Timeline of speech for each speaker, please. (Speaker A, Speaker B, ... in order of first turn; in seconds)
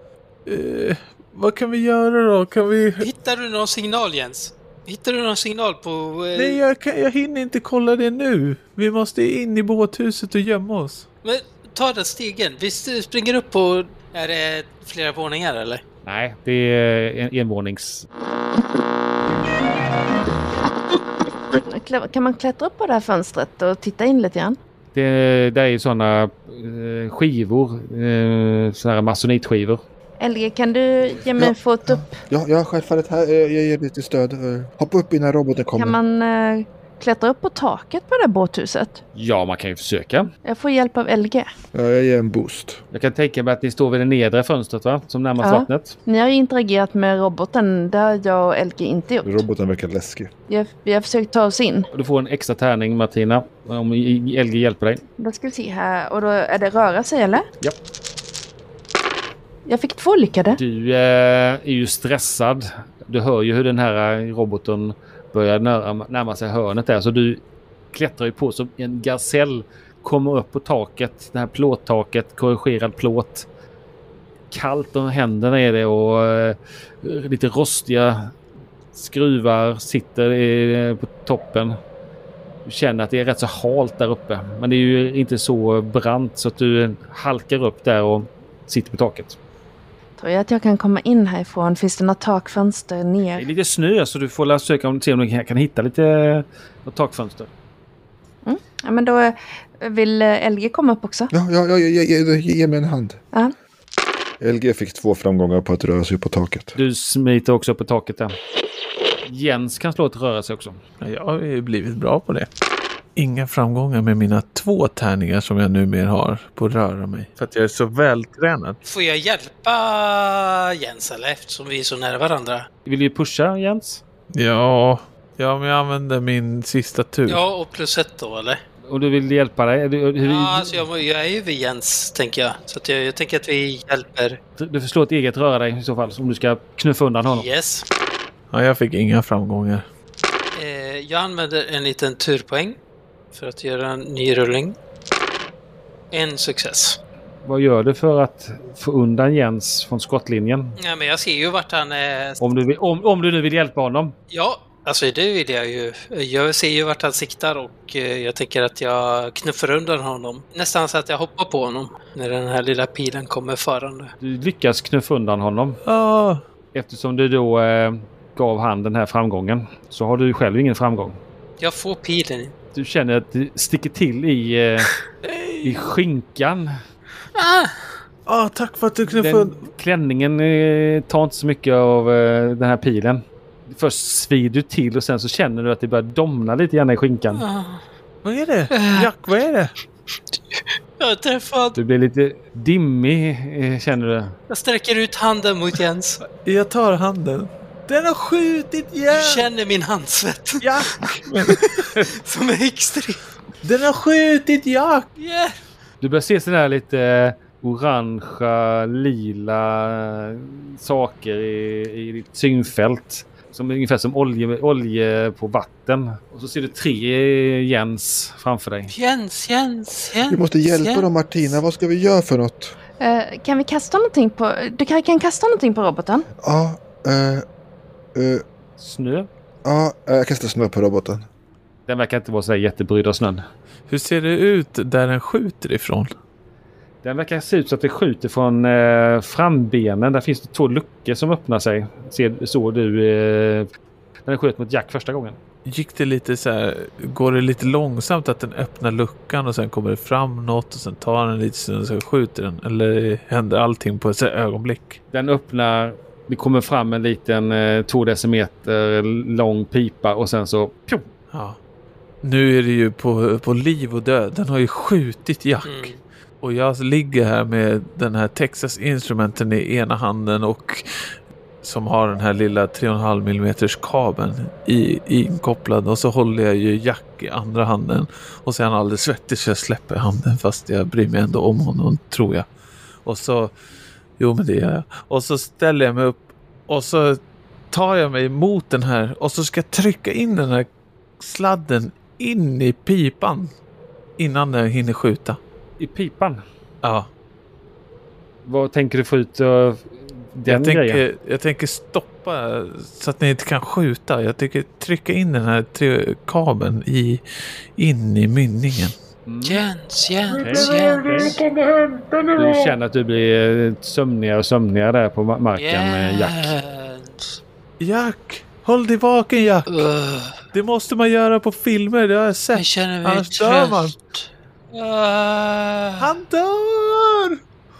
Speaker A: 0.5-3.1, 6.3-11.1, 111.0-112.5, 113.2-118.8, 124.3-127.4, 138.5-139.8, 165.8-166.4, 175.2-175.7, 178.2-179.6, 188.2-189.7, 196.2-199.5, 200.6-201.6, 203.6-205.1, 233.9-236.1, 245.7-255.0, 261.3-261.6, 262.2-265.9, 266.4-270.8, 271.6-282.5, 283.0-283.5, 284.2-287.2, 287.7-290.7, 291.2-293.5, 294.2-295.4, 296.8-297.1, 300.5-307.2, 307.8-308.9, 310.4-311.2, 317.8-319.8, 320.5-323.9, 326.0-327.4
Speaker B: 3.0-6.6, 11.2-15.8, 118.8-122.7, 127.2-128.6, 130.2-134.4, 137.2-137.8, 140.5-142.8, 143.3-144.8, 146.1-147.0, 150.8-152.4, 154.3-164.1, 171.6-172.5, 177.3-177.7, 187.3-187.8, 188.7-189.1, 190.5-191.8, 194.5-196.2, 199.1-203.3, 205.2-205.6, 218.9-221.1, 265.6-266.0, 309.4-311.3, 315.6-317.4, 319.7-320.4, 322.5-326.1
Speaker C: 16.0-18.1, 24.9-29.8, 39.1-40.3, 42.9-46.0, 51.9-55.0, 60.5-67.4, 67.9-73.5, 74.5-78.3, 78.9-81.8, 82.6-89.4, 93.4-97.5, 106.8-108.3, 109.2-110.8, 122.8-124.0, 128.9-130.8, 134.6-137.5, 147.4-150.8, 152.4-154.1, 164.2-165.8, 166.7-171.2, 172.7-174.9, 175.6-176.7, 179.1-187.4, 191.8-194.3, 206.0-218.9, 228.8-229.3, 231.9-233.4, 237.0-243.7, 244.2-245.4, 255.1-261.1, 295.8-296.4, 298.4-301.0, 309.3-309.6, 310.4-311.4, 312.4-316.5
Speaker D: 21.6-24.6, 30.2-32.1, 35.7-39.0, 40.4-41.5, 45.4-49.4, 50.5-51.9, 55.2-57.5, 59.6-60.6, 90.2-93.5, 98.4-101.3, 223.0-226.3
Speaker E: 31.2-36.0, 41.7-42.8, 49.2-50.3, 101.3-103.2, 104.4-106.7, 220.3-222.7, 226.4-227.4, 228.1-228.4, 229.6-231.3